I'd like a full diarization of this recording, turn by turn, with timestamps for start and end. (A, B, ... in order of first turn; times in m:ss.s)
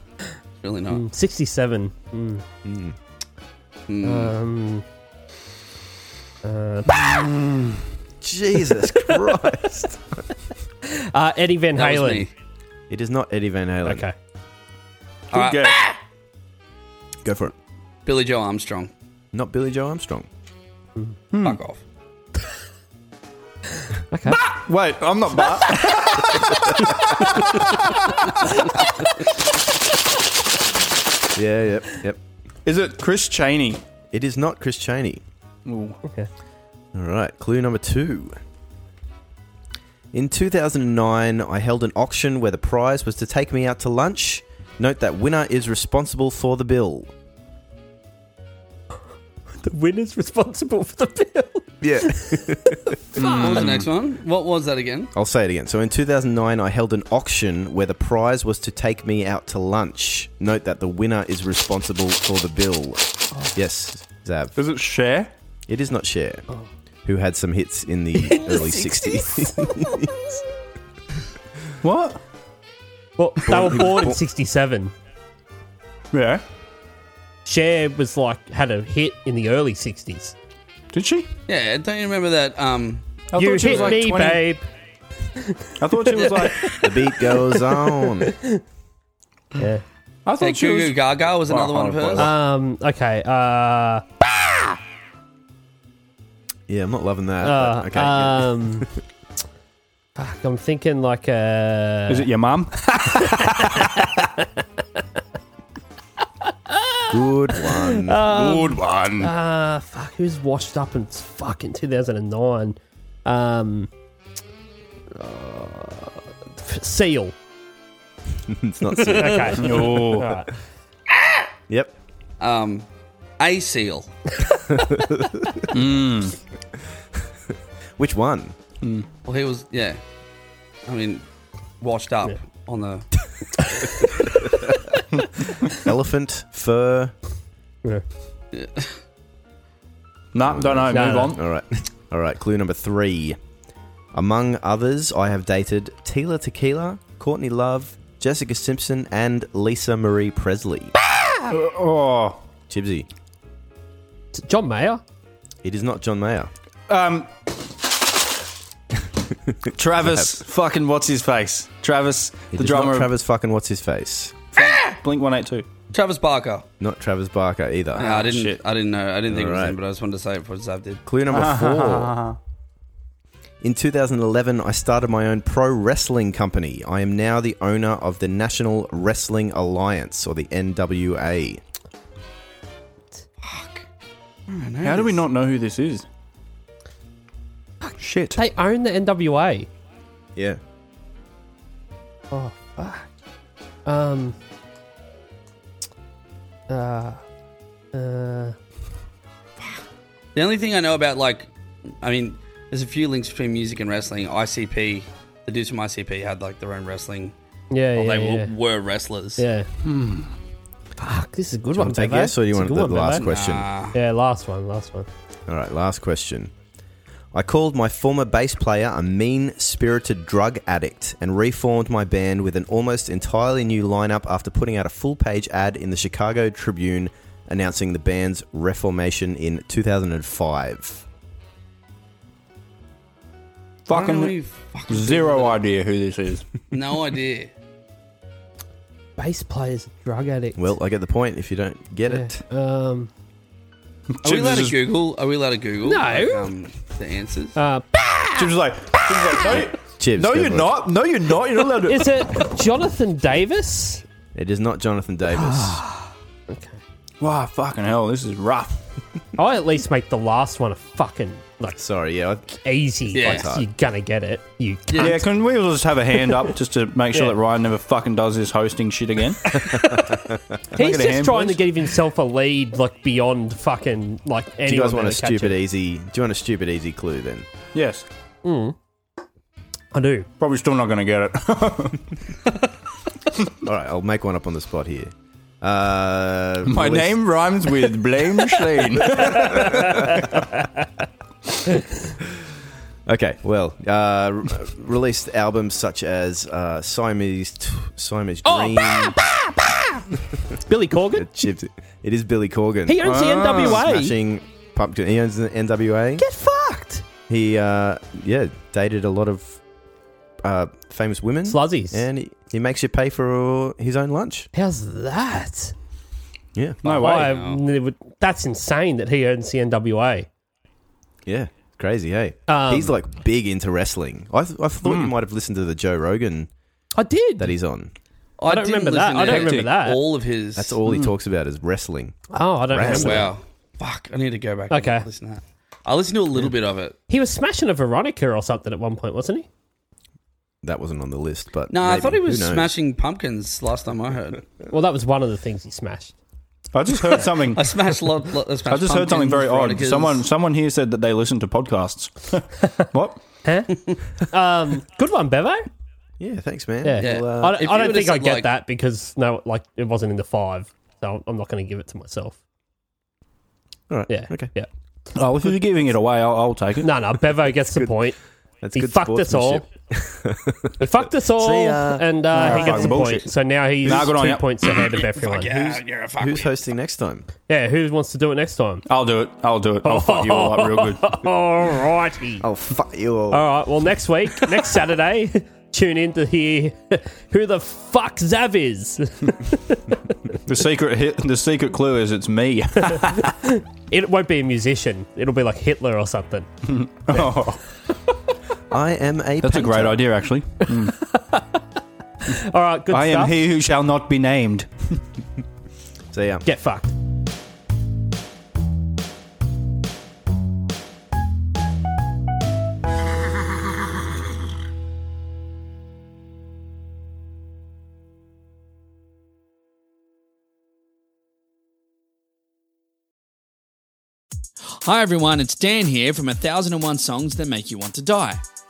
0:00.6-0:01.0 A
0:00.9-0:02.4 B
0:02.6-0:03.0 C
0:03.9-0:04.3 A
0:04.0-0:04.8 B
0:06.4-0:07.3 B
0:08.2-0:10.2 C
0:10.8-0:12.3 B
0:11.8-0:12.3 A
0:12.9-0:14.0 C
0:13.8-0:14.1 B
0:15.3-0:15.8 D
0:15.3-0:15.9 A
0:17.2-0:17.5 C
0:18.0-0:18.9 A
0:19.3-0:20.3 C
0:21.3-0:21.6 D
0:21.4-0:21.8 A
0:24.1-0:24.4 B
0:24.3-0:28.1 D
0:27.0-0:27.4 B
0:28.4-0:28.9 B
0:31.3-0:32.2 C
0:32.6-0:33.8 D
0:34.1-0:35.2 C
0:35.6-0:36.0 D
0:36.9-0:38.4 C
0:40.1-0:47.1 C
0:49.6-0:53.8 B
0:51.8-0:52.9 C
0:53.2-0:53.8 D
0:53.2-0:55.1 A
0:55.1-1:04.6 C
1:04.6-1:05.3 D
1:05.7-1:06.5 C
1:07.0-1:10.1 C
1:08.2-1:10.3 B
1:11.8-1:12.2 D
1:13.2-1:14.9 B
1:13.4-1:14.2 C
1:16.1-1:16.4 D
1:17.4-1:20.3 B
1:20.9-1:21.3 D
1:21.5-1:23.0 A
1:23.3-1:24.4 D
1:23.4-1:24.6 B
1:25.4-1:28.6 B
1:25.8-1:26.7 D
1:26.7-1:28.3 C
1:29.6-1:29.8 B
1:30.2-1:32.3 D
1:30.4-1:32.3 A
1:32.1-1:34.0 B
1:36.7-1:38.9 C
1:37.4-1:38.9 B
1:40.2-1:42.3 B
1:42.1-1:44.0 D
1:43.2-1:44.2 B
1:46.7-1:53.9 B
1:47.1-1:48.3 C
1:48.3-1:49.3 D
1:55.1-1:57.3 B
1:58.5-1:59.6 C
1:58.9-1:59.9 A
1:59.1-2:00.5 B
1:59.6-2:00.3 D
2:02.4-2:02.9 A
2:03.4-2:04.1 A
2:04.7-2:05.6 C
2:05.7-2:06.4 D
2:08.0-2:08.5 C
2:08.8-2:09.1 D
2:09.2-2:10.0 A
2:10.8-2:11.2 A
2:11.8-2:13.1 A
2:15.7-2:17.1 C
2:18.5-2:19.0 A
2:20.3-2:21.4 D
2:20.4-2:23.4 C
2:20.9-2:21.4 B
2:24.1-2:30.9 C
2:31.5-2:32.4 D
2:32.7-2:33.1 C
2:34.3-2:35.0 B
2:35.6-2:36.5 C
2:36.9-2:37.3 D
2:39.7-2:43.1 D
2:40.0-2:40.4 C
2:42.5-2:44.4 C
2:44.6-2:45.6 D
2:45.9-2:46.6 A
2:46.8-2:48.1 C
2:47.9-2:48.6 D
2:48.0-2:51.0 A
2:49.3-2:49.8 C
2:51.0-2:52.2 C
2:51.3-2:52.4 D
2:53.6-3:01.6 C
3:03.4-3:03.8 A
3:04.5-3:05.2 A
3:04.8-3:06.0 D
3:07.8-3:09.7 B
3:08.0-3:08.4 D
3:12.3-3:13.1 B
3:13.8-3:14.4 B
3:16.7-3:17.2 B
3:17.9-3:18.6 B
3:20.3-3:27.3 A
3:27.7-3:28.5 B
3:27.9-3:29.4 A
3:29.4-3:29.7 B
3:29.9-3:30.2 D
3:31.0-3:33.3 B
3:31.7-3:33.7 C
3:33.2-3:34.0 A
3:33.9-3:35.1 B
3:35.5-3:36.5 C
3:37.3-3:51.0 C
3:53.9-3:54.3 D
3:53.9-3:55.6 A
3:54.9-3:56.5 D
3:56.7-3:57.5 A
3:59.2-4:00.7 B
4:00.6-4:02.4 C
4:02.1-4:03.1 B
4:04.1-4:04.8 D
4:04.2-4:07.6 A
4:05.8-4:06.5 B
4:07.6-4:08.5 B
4:08.4-4:12.3 D
4:09.8-4:10.9 C
4:11.8-4:14.0 B
4:14.3-4:15.8 C
4:15.5-4:15.8 D
4:16.5-4:16.8 B
4:17.2-4:18.8 D
4:19.4-4:21.8 B
4:21.8-4:22.5 C
4:22.5-4:25.2 B
4:23.0-4:23.7 C
4:23.1-4:23.5 A
4:24.9-4:25.2 A
4:25.0-4:29.6 D
4:29.5-4:30.1 B
4:30.7-4:35.6 B
4:30.7-4:31.6 D
4:34.6-4:37.4 C
4:37.7-4:38.0 D
4:38.4-4:38.8 B
4:39.9-4:40.3 B
4:40.4-4:42.2 D
4:43.6-4:47.2 C
4:46.6-4:50.1 D
4:49.6-4:50.5 B
4:53.1-4:59.2 C
4:58.4-5:00.0 B
5:00.6-5:01.3 B
5:01.1-5:06.2 C
5:02.8-5:04.1 B
5:03.0-5:03.8 D
5:06.2-5:07.0 B
5:07.3-5:09.6 C
5:10.4-5:14.5 C
5:11.4-5:12.1 B
5:14.5-5:15.7 B
5:16.8-5:17.3 D
5:16.9-5:20.3 B
5:16.9-5:17.6 A
5:21.2-5:26.5 C
5:22.5-5:23.0 B
5:24.8-5:25.1 D
5:26.9-5:27.5 B
5:27.4-5:27.9 C
5:28.4-5:30.8 A
5:28.4-5:30.0 B
5:29.2-5:29.7 D
5:30.6-5:33.3 C
5:32.3-5:33.3 B
5:32.8-5:37.0 A
5:34.7-5:35.0 B
5:37.1-5:39.5 B
5:40.6-5:42.7 C
5:41.7-5:44.5 A
5:44.7-5:46.2 B
5:46.7-5:47.7 D
5:47.1-5:50.2 A
5:48.7-5:53.2 D
5:53.4-5:55.6 B
5:56.2-5:57.6 C
5:56.8-6:02.4 B
5:57.0-5:58.5 A
6:03.9-6:04.5 C
6:04.1-6:04.7 B
6:05.1-6:06.9 D
6:06.8-6:08.2 B
6:07.6-6:08.1 C
6:08.6-6:10.7 C
6:08.7-6:09.6 B
6:10.8-6:15.5 B
6:11.4-6:13.0 C
6:12.3-6:13.3 D
6:13.8-6:14.4 D
6:14.8-6:16.6 A
6:15.4-6:17.3 C
6:17.5-6:18.8 B
6:18.9-6:21.0 D
6:19.8-6:22.5 B
6:22.4-6:23.4 C
6:23.3-6:30.0 B
6:30.5-6:33.3 D
6:32.9-6:36.5 B
6:36.6-6:37.6 D
6:38.7-6:40.0 C
6:39.4-6:41.0 D
6:40.7-6:41.6 B
6:42.2-6:43.3 B
6:42.9-6:45.0 D
6:46.1-6:46.4 C
6:46.4-6:46.9 B
7:04.7-7:08.4 A